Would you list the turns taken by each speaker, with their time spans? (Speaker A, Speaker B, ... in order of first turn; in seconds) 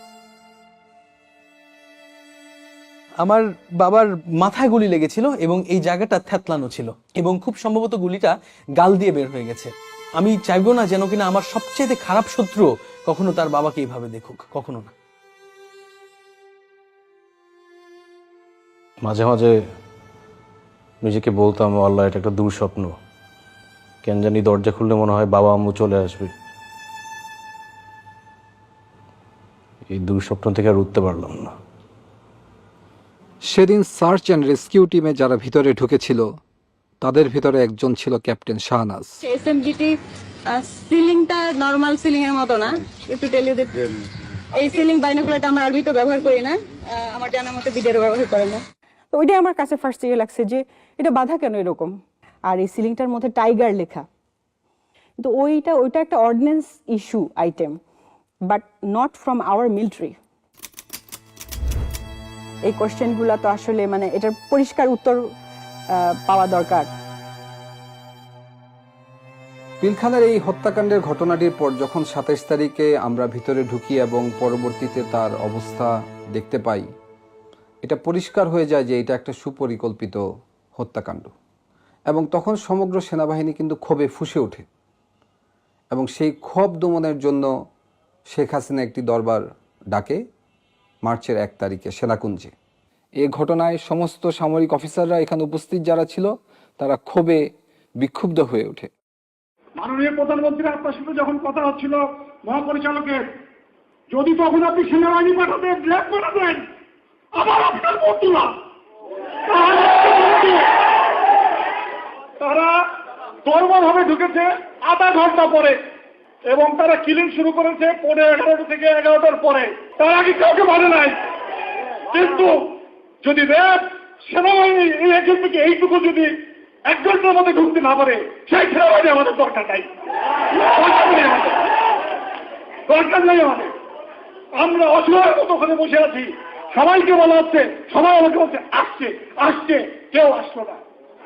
Speaker A: 3.2-14.9
Speaker B: 19.0-19.6, 21.0-22.9, 24.0-26.3, 29.9-31.6
Speaker C: 33.5-36.3, 37.0-39.2, 69.8-76.9, 77.8-80.2, 80.8-81.3, 82.1-84.7, 85.9-87.5, 88.3-90.2, 91.0-92.5, 93.2-97.4, 98.0-98.9
Speaker D: 39.2-39.9, 40.5-43.7, 44.5-48.6
Speaker E: 43.2-43.7, 49.1-54.1, 55.2-57.8, 58.4-60.2, 62.6-65.2, 65.9-66.9
Speaker F: 99.8-103.3, 104.1-106.7, 107.3-108.6, 109.5-110.8, 112.4-112.8, 113.4-115.8, 116.5-121.2, 122.0-129.9, 130.5-131.8, 132.9-133.7, 134.5-140.8